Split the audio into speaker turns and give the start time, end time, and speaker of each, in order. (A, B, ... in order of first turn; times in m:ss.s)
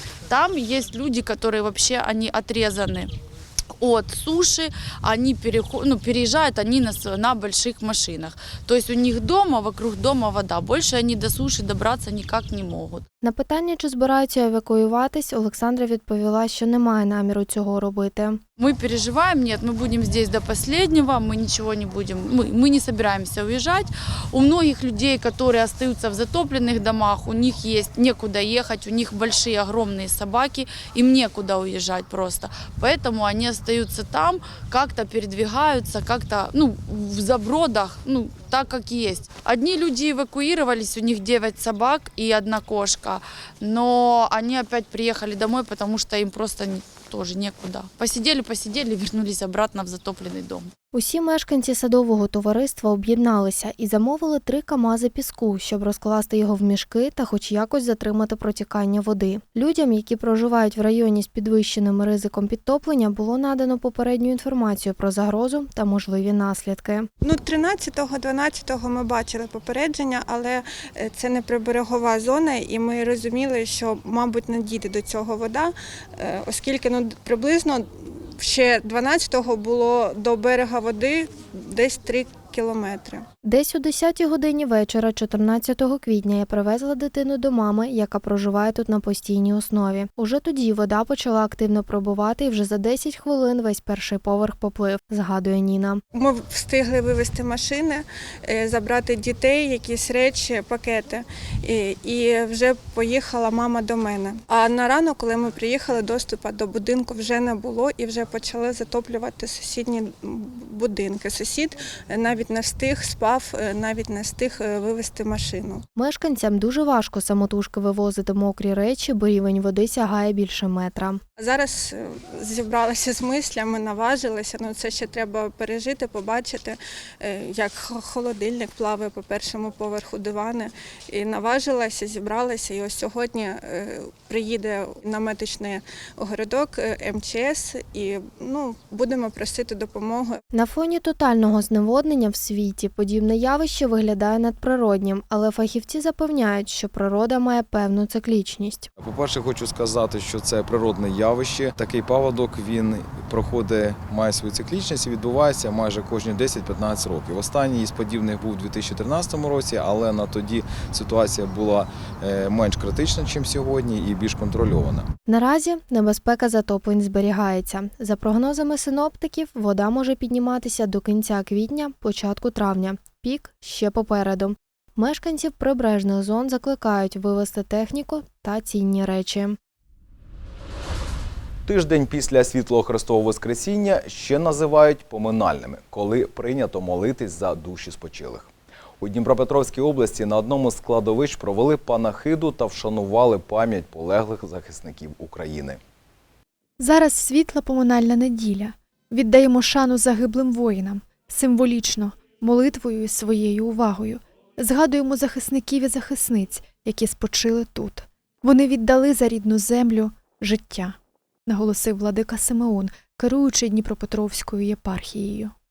0:00.3-0:03.1 A
0:03.8-0:13.0 A
0:13.2-0:18.4 B
0:18.6-0:50.7 A
0:50.9-1:07.1 B
1:07.2-1:23.2 C
1:23.4-1:36.0 B
1:36.1-1:55.8 C
1:56.0-2:01.2 B
2:01.4-2:20.4 C
2:20.5-2:28.9 B
2:29.0-2:45.1 D
2:45.3-2:59.6 B
3:01.6-3:08.5 E
3:09.0-3:15.8 E
3:16.8-3:31.0 F
3:31.5-3:35.5 F